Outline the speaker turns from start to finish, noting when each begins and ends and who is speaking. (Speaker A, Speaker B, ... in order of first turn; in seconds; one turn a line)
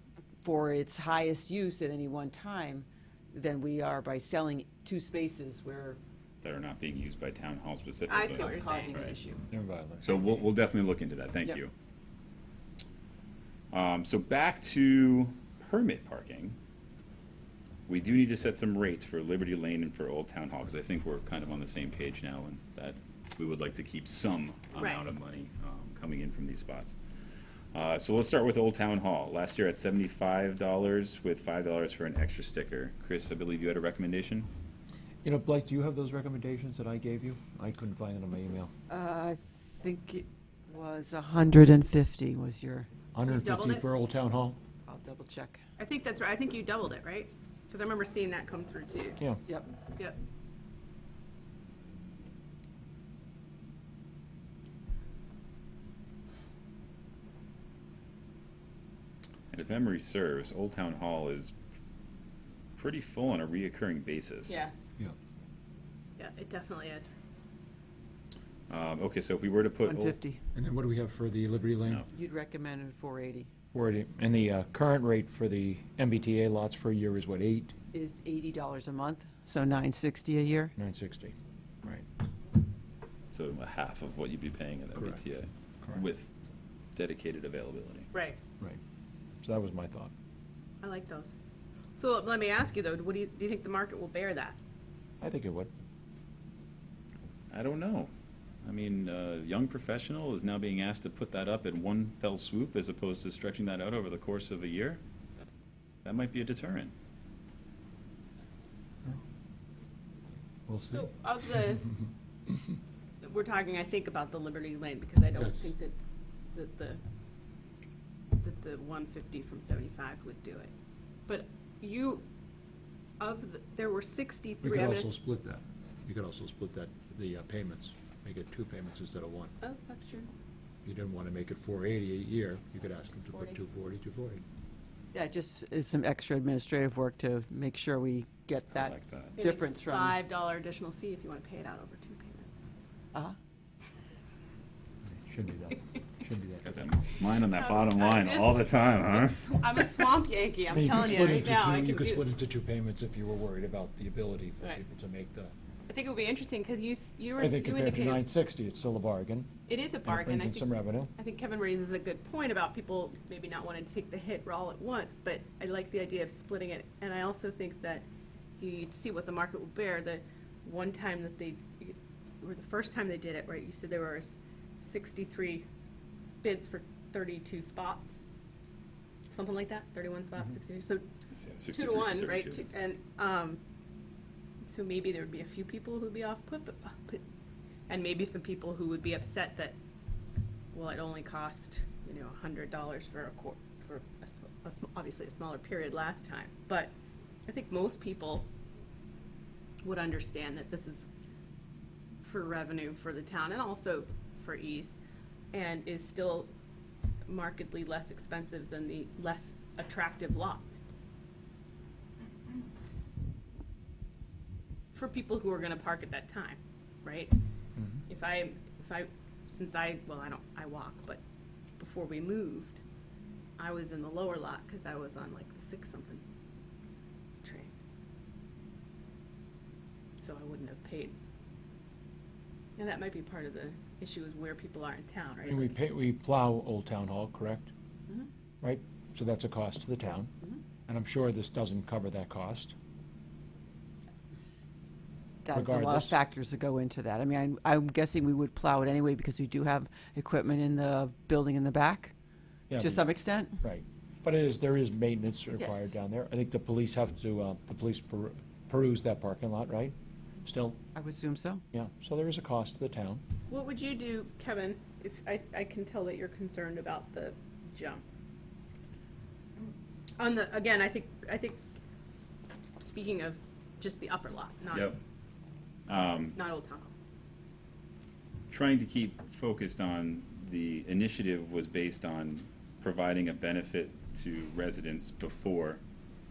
Speaker A: 0.4-6.0
Speaker B: 6.4-9.1
Speaker C: 8.1-9.0
Speaker A: 8.2-9.4
Speaker D: 9.5-10.2
Speaker B: 10.0-11.7
Speaker B: 13.7-16.6
Speaker B: 17.9-26.9
Speaker C: 24.8-25.0
Speaker B: 27.7-34.5
Speaker D: 35.2-38.7
Speaker A: 38.9-42.9
Speaker D: 43.1-44.6
Speaker C: 43.2-43.8
Speaker A: 44.8-45.6
Speaker C: 45.8-49.2
Speaker A: 49.5-49.7
Speaker B: 59.5-61.5
Speaker B: 62.8-64.6
Speaker C: 66.2-67.1
Speaker B: 68.7-70.2
Speaker A: 69.8-70.4
Speaker D: 70.5-72.0
Speaker A: 72.1-73.5
Speaker D: 73.7-77.7
Speaker A: 77.9-80.7
Speaker D: 80.8-82.0
Speaker B: 83.3-86.3
Speaker B: 86.9-88.1
Speaker C: 88.1-88.4
Speaker D: 89.4-90.1
Speaker C: 90.8-91.3
Speaker C: 92.0-94.6
Speaker D: 95.2-95.7
Speaker B: 97.5-98.1
Speaker B: 98.6-105.0
Speaker B: 106.0-106.9
Speaker D: 110.7-111.9
Speaker C: 110.9-111.8
Speaker C: 113.2-116.0
Speaker D: 115.3-115.7
Speaker C: 116.5-117.0
Speaker C: 118.4-120.7
Speaker C: 121.3-122.3
Speaker C: 123.2-125.1
Speaker D: 124.6-129.5
Speaker C: 129.6-130.3
Speaker D: 130.8-134.4
Speaker A: 135.1-140.2
Speaker B: 138.7-139.4
Speaker C: 139.4-142.5
Speaker D: 145.0-146.8
Speaker B: 146.6-149.6
Speaker C: 147.4-152.2
Speaker D: 150.7-155.5
Speaker C: 155.9-158.2
Speaker D: 157.4-161.1
Speaker C: 159.7-168.1
Speaker C: 168.6-175.6
Speaker C: 176.4-178.2
Speaker C: 179.3-181.1
Speaker B: 181.3-182.7
Speaker C: 181.7-183.6
Speaker C: 184.7-187.2
Speaker C: 187.9-189.8
Speaker C: 190.7-196.9
Speaker C: 197.5-198.5
Speaker C: 199.8-201.1
Speaker C: 202.2-205.0
Speaker C: 205.5-206.5
Speaker C: 207.3-210.7
Speaker C: 214.9-217.4
Speaker D: 217.8-218.0
Speaker C: 218.1-221.2
Speaker C: 221.8-222.8
Speaker C: 223.6-226.2
Speaker C: 227.4-227.7
Speaker C: 230.2-231.1
Speaker C: 232.8-235.8
Speaker D: 235.4-237.7
Speaker D: 238.6-240.3
Speaker D: 240.9-242.7
Speaker A: 245.4-252.1
Speaker D: 245.5-246.1
Speaker D: 252.7-253.1
Speaker A: 252.8-253.6
Speaker D: 253.6-260.8
Speaker A: 255.6-255.9
Speaker A: 260.9-261.6
Speaker D: 261.7-263.2
Speaker C: 263.5-268.0
Speaker C: 270.2-271.6
Speaker C: 272.8-274.9
Speaker B: 274.7-275.0
Speaker B: 275.9-276.4
Speaker C: 276.3-276.9
Speaker B: 278.5-285.8